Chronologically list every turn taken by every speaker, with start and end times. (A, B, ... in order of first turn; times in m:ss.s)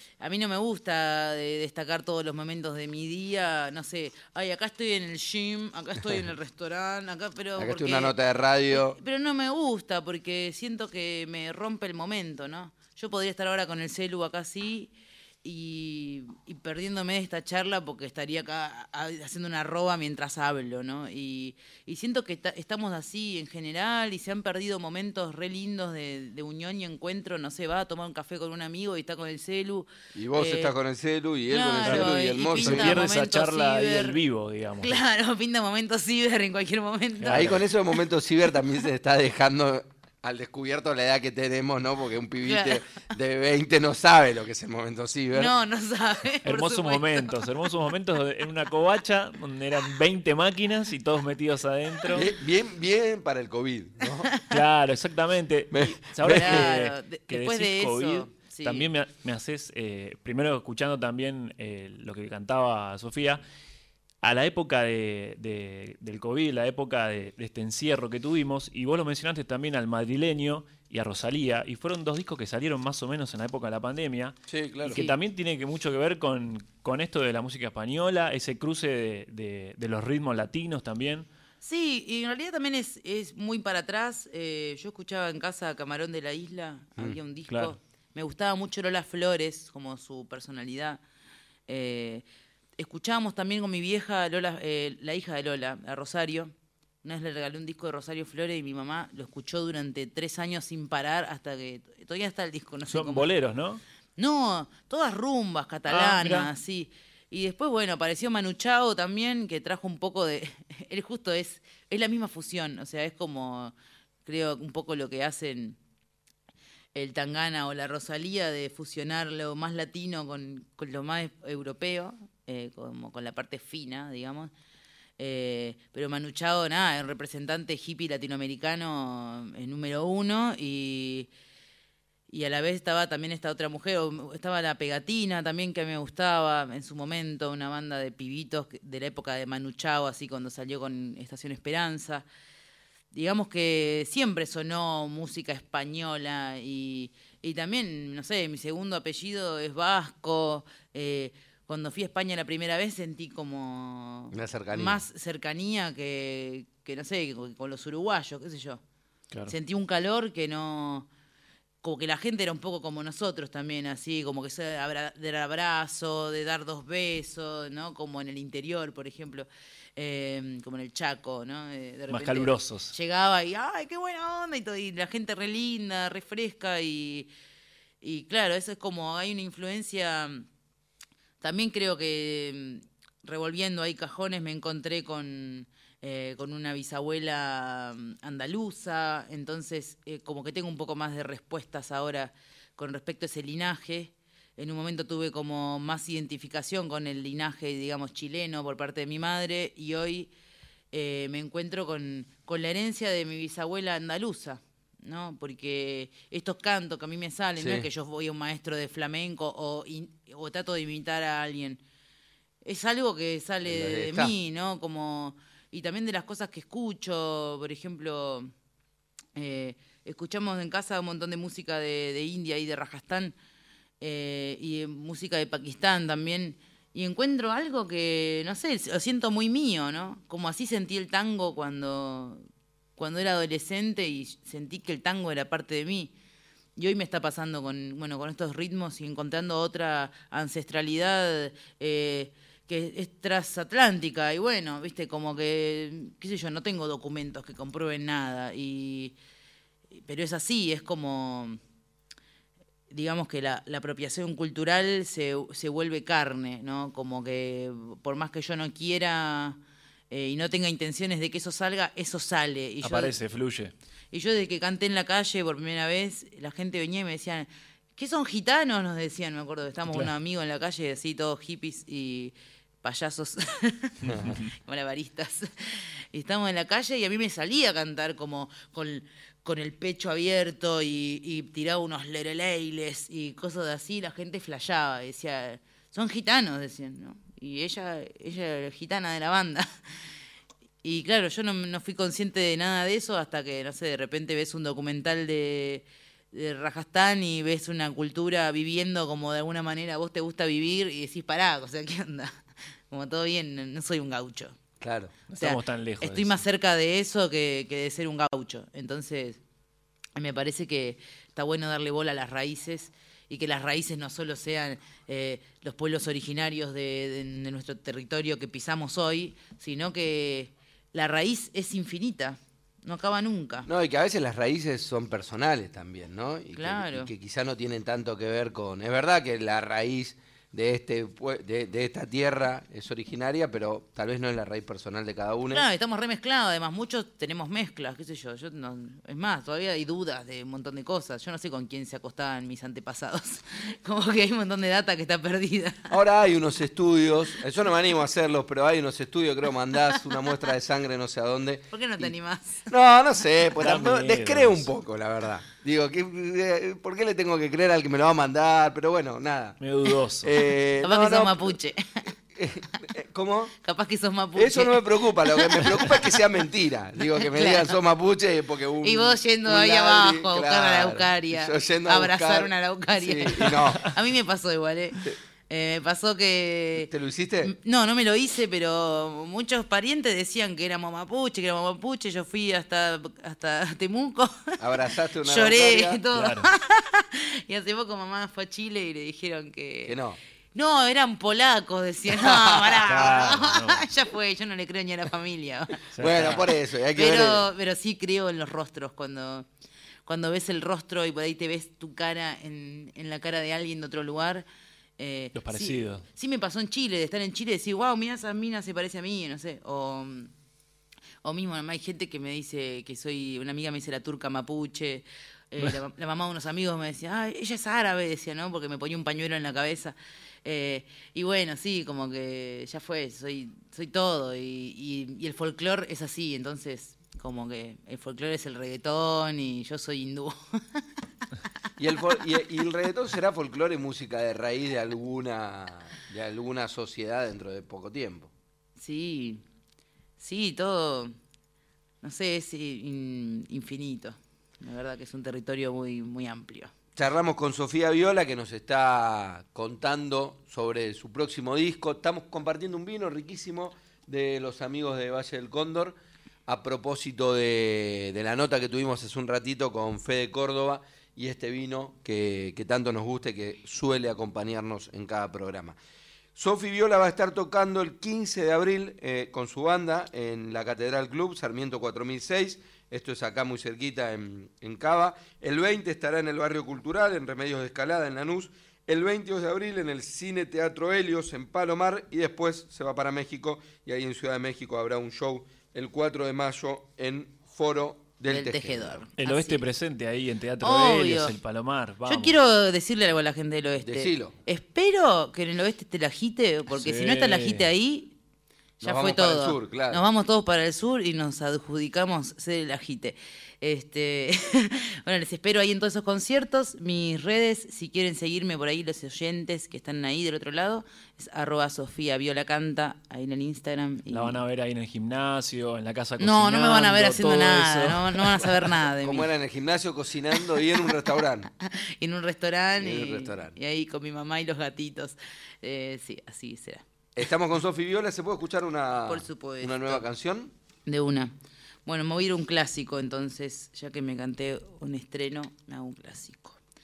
0:00.2-0:08.2 A
0:07.6-0:09.0 B
0:08.7-0:30.7 A
0:30.2-0:33.0 B
0:31.5-0:34.2 A
0:31.8-0:35.0 C
0:34.8-0:37.7 A
0:37.2-0:37.6 C
0:37.3-0:45.5 B
0:42.4-0:42.8 A
0:45.3-0:47.4 A
0:46.4-0:52.3 C
0:52.1-0:54.3 B
0:54.4-1:03.4 C
0:55.7-0:56.7 B
0:56.2-0:58.9 A
1:04.2-1:21.3 C
1:14.5-1:15.0 B
1:14.9-1:15.2 A
1:21.6-1:31.0 A
1:27.5-1:27.7 C
1:31.7-1:32.2 A
1:32.8-1:43.3 A
1:42.9-1:43.8 C
1:44.2-1:55.8 A
1:45.9-1:46.5 C
1:56.9-2:04.5 A
2:05.2-2:11.3 A
2:12.3-2:22.3 A
2:23.1-2:38.8 A
2:34.3-2:35.0 B
2:39.5-2:41.1 A
2:41.8-2:57.3 A
2:52.1-2:52.9 C
2:58.0-3:00.4 A
3:01.4-3:20.3 A
3:20.9-3:31.8 A
3:27.6-3:27.9 B
3:32.6-3:38.5 A
3:33.6-3:34.3 B
3:39.4-3:43.4 A
3:44.0-3:52.4 A
3:53.0-3:56.1 A
3:56.8-4:09.2 A
4:09.9-4:11.6 A
4:12.9-4:19.6 A
4:20.1-4:23.1 A
4:22.8-4:23.7 C
4:24.1-4:49.7 A
4:34.1-4:34.4 B
4:50.8-5:04.6 A
5:04.8-5:05.2 B
5:05.3-5:06.4 C
5:05.4-5:09.4 A
5:10.2-5:23.7 A
5:23.6-5:35.6 B
5:26.6-5:27.1 A
5:35.5-5:45.9 A
5:45.9-5:52.1 B
5:51.7-5:52.7 A
5:52.7-5:59.6 B
5:53.6-5:54.7 C
5:59.6-6:00.3 C
6:00.2-6:01.6 B
6:00.8-6:02.1 A
6:02.4-6:03.5 B
6:03.6-6:06.2 A
6:04.4-6:13.9 B
6:07.1-6:07.8 A
6:08.8-6:16.9 A
6:16.8-6:17.5 B
6:17.4-6:24.6 A
6:24.6-6:26.0 B
6:25.2-6:30.0 A
6:26.1-6:26.5 C
6:29.9-6:30.2 B
6:30.5-6:39.5 A
6:32.7-6:33.9 C
6:35.9-6:36.4 C
6:36.0-6:37.5 B
6:40.1-6:44.4 A
6:45.0-6:50.3 A
6:45.4-6:46.0 C
6:51.2-7:10.8 A
7:11.8-7:18.3 B
7:18.8-7:19.4 A
7:20.2-7:21.1 A
7:22.0-7:26.7 A
7:27.0-7:45.8 B
7:46.4-8:09.0 B
8:08.3-8:09.6 A
8:09.2-8:12.4 C
8:10.6-8:11.4 A
8:12.0-8:18.1 A
8:13.8-8:14.4 B
8:16.7-8:17.7 C
8:18.8-8:20.0 B
8:18.8-8:34.4 A
8:34.1-8:38.7 C
8:36.2-8:39.3 A
8:39.0-8:41.5 B
8:40.4-8:40.9 A
8:41.6-8:46.8 A
8:42.8-8:43.6 B
8:47.2-8:50.5 B
8:49.1-8:50.0 A
8:50.9-8:51.3 A
8:51.9-8:56.6 A